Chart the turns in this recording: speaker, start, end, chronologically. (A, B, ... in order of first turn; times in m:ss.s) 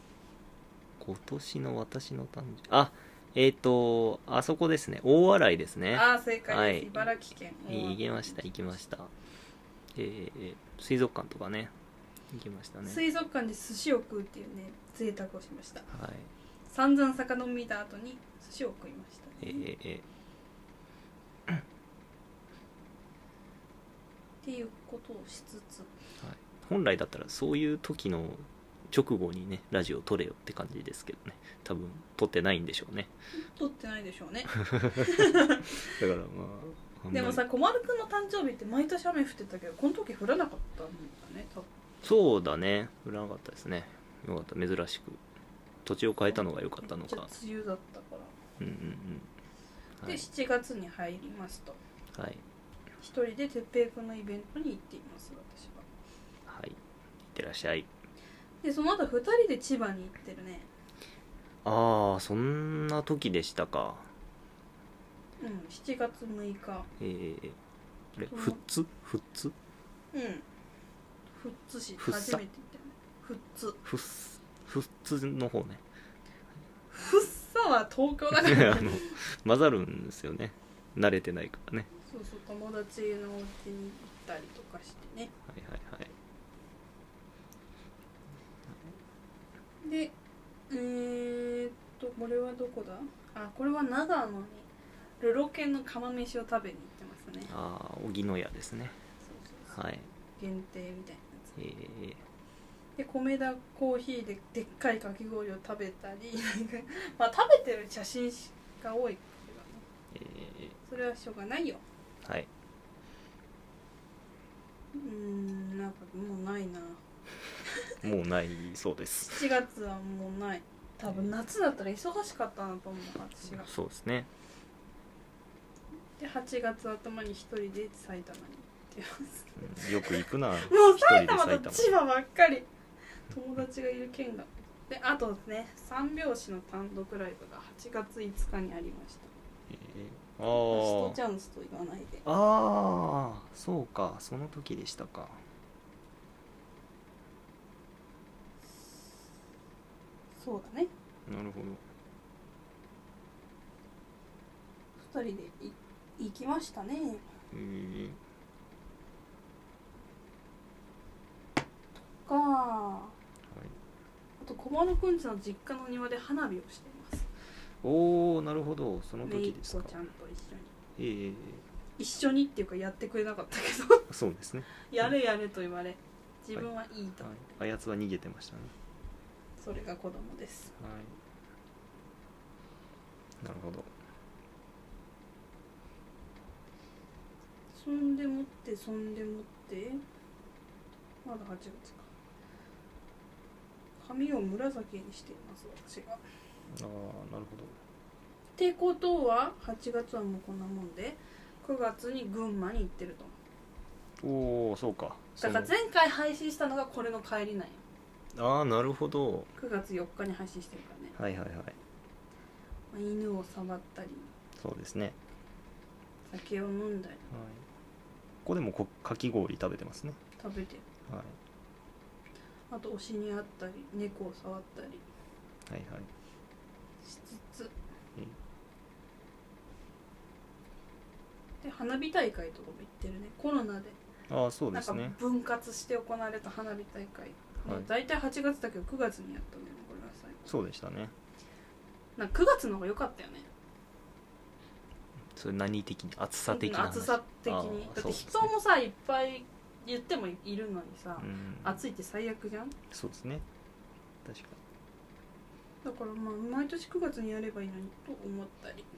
0:01.0-0:07.1 A
0:05.9-0:08.4 B
0:07.7-0:09.1 A
0:10.0-0:11.7 A
0:12.3-0:13.0 A
0:12.8-0:15.9 B
0:15.9-0:16.3 A
0:16.7-0:19.7 B
0:19.4-0:20.1 A
0:24.4-0:25.9 B
0:26.2-0:33.1 A
0:33.4-0:36.0 B
0:34.6-0:35.2 A
0:35.8-0:37.4 A
0:37.1-0:41.7 B
0:42.0-0:45.2 A
0:45.8-0:47.3 A
0:46.8-0:48.3 B
0:48.6-0:49.3 A
0:50.0-0:51.8 B
0:52.1-0:52.4 A
0:53.0-0:55.9 B
0:56.5-0:57.9 A
0:58.6-1:00.7 B
1:01.6-1:04.1 A
1:05.4-1:06.9 B
1:07.0-1:07.6 A
1:08.2-1:09.6 A
1:08.3-1:08.6 B
1:10.1-1:10.4 B
1:11.4-1:13.8 B
1:12.0-1:12.4 A
1:13.8-1:15.8 A
1:16.9-1:19.2 B
1:18.4-1:21.9 A
1:22.0-1:25.3 B
1:25.5-1:26.1 A
1:29.8-1:30.1 B
1:30.7-1:34.7 B
1:35.2-1:37.5 B
1:37.5-1:39.0 A
1:39.2-1:39.8 B
1:39.7-1:40.1 A
1:40.4-1:41.5 B
1:41.6-1:42.2 A
1:43.0-1:49.8 B
1:50.1-1:50.8 A
1:50.9-1:51.8 B
1:54.9-1:57.0 B
1:58.0-1:59.4 A
1:59.3-2:03.7 B
2:03.5-2:04.3 A
2:06.2-2:12.7 B
2:09.6-2:11.9 A
2:13.3-2:19.3 B
2:19.7-2:21.2 A
2:20.5-2:22.2 B
2:22.2-2:25.4 A
2:30.4-2:30.9 B
2:31.3-2:31.8 A
2:35.0-2:37.2 B
2:37.5-2:38.2 A
2:42.2-2:43.2 B
2:43.5-2:43.8 A
2:44.4-2:47.3 B
2:47.8-2:49.9 A
2:49.2-2:50.7 B
2:51.0-2:51.6 A
2:52.0-2:54.1 B
2:54.1-2:54.7 A
2:54.9-2:57.4 B
2:57.2-2:58.7 A
2:59.6-3:00.7 B
3:00.8-3:01.2 A
3:03.4-3:03.9 A
3:07.7-3:10.0 B
3:11.2-3:12.1 B
3:14.0-3:16.2 B
3:16.7-3:17.8 A
3:18.6-3:23.4 B
3:24.2-3:25.7 A
3:25.4-3:27.8 B
3:28.4-3:29.5 A
3:29.6-3:31.2 B
3:31.2-3:31.8 A
3:32.9-3:34.3 B
3:34.6-3:35.2 A
3:36.3-3:37.3 B
3:37.3-3:37.6 A
3:38.4-3:40.2 A
3:40.4-3:40.8 B
3:41.1-3:41.4 A
3:42.7-3:45.0 B
3:45.7-3:46.1 A
3:47.0-3:47.7 B
3:51.6-3:54.0 B
3:54.3-3:55.2 A
3:54.7-4:00.5 B
4:00.5-4:01.1 A
4:02.2-4:03.5 B
4:05.4-4:08.5 A
4:06.5-4:12.8 B
4:11.2-4:11.8 A
4:12.9-4:13.4 A
4:14.2-4:14.6 A
4:15.8-4:18.9 B